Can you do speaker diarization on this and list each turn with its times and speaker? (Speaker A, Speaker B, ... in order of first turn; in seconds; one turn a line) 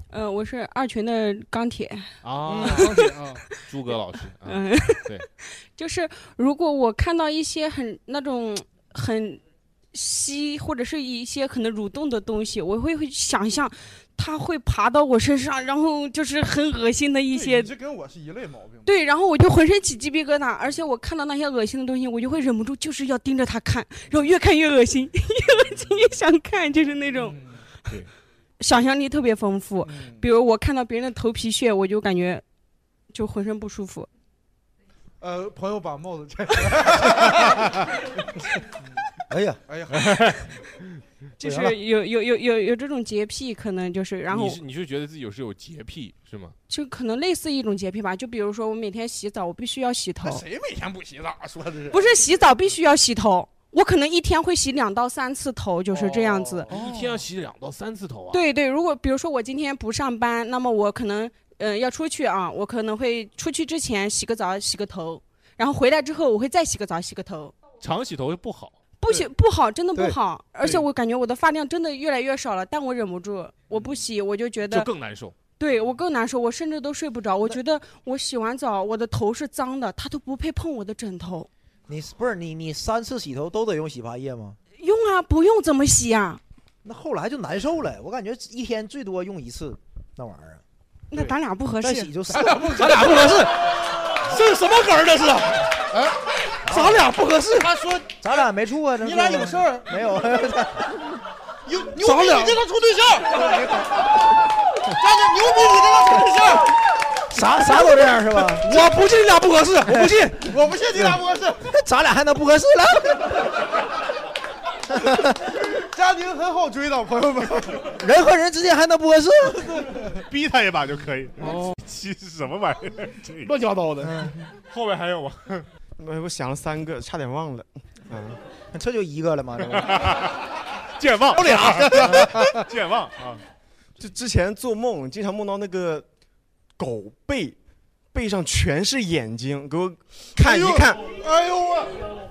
Speaker A: 0.1-3.6
Speaker B: 2.2-2.9
Speaker C: 2.5-2.9
Speaker D: 2.5-3.4
Speaker B: 3.7-5.3
Speaker A: 4.4-9.4
Speaker A: 9.9-17.7
Speaker C: 17.3-18.9
Speaker A: 18.9-27.4
Speaker C: 27.2-27.6
Speaker A: 28.6-32.4
Speaker C: 29.8-30.2
Speaker A: 33.1-34.1
Speaker C: 35.2-37.8
Speaker E: 39.3-39.6
Speaker C: 39.7-40.4
Speaker B: 40.0-40.4
Speaker A: 41.4-44.6
Speaker E: 41.4-41.8
Speaker B: 44.3-46.5
Speaker A: 46.7-50.4
Speaker C: 50.2-52.0
Speaker A: 51.9-56.7
Speaker C: 55.9-57.2
Speaker B: 56.7-58.4
Speaker A: 58.3-67.5
Speaker B: 67.8-68.7
Speaker A: 69.0-74.9
Speaker C: 73.7-74.0
Speaker B: 74.6-75.3
Speaker A: 75.6-81.5
Speaker E: 81.9-84.6
Speaker A: 84.8-86.4
Speaker E: 86.8-90.6
Speaker A: 91.1-92.1
Speaker E: 91.8-93.1
Speaker D: 92.3-95.9
Speaker C: 95.9-96.2
Speaker E: 96.6-97.1
Speaker D: 96.7-97.7
Speaker C: 97.6-98.4
Speaker E: 98.2-101.1
Speaker C: 99.0-99.9
Speaker C: 101.6-103.9
Speaker D: 102.0-102.6
Speaker C: 104.8-106.7
Speaker E: 107.3-108.7
Speaker D: 108.6-110.4
Speaker E: 109.9-110.3
Speaker C: 110.4-111.7
Speaker E: 111.0-113.5
Speaker E: 114.9-115.3
Speaker C: 115.8-117.9
Speaker E: 117.9-120.0
Speaker B: 120.2-123.5
Speaker D: 121.4-121.8
Speaker D: 123.4-124.3
Speaker E: 124.0-124.4
Speaker B: 124.7-125.7
Speaker F: 126.0-128.4
Speaker E: 128.7-130.3
Speaker B: 129.8-130.4
Speaker B: 130.9-133.4
Speaker E: 131.3-132.5
Speaker F: 134.0-136.1
Speaker F: 136.8-137.6
Speaker F: 138.1-141.1
Speaker C: 140.3-142.1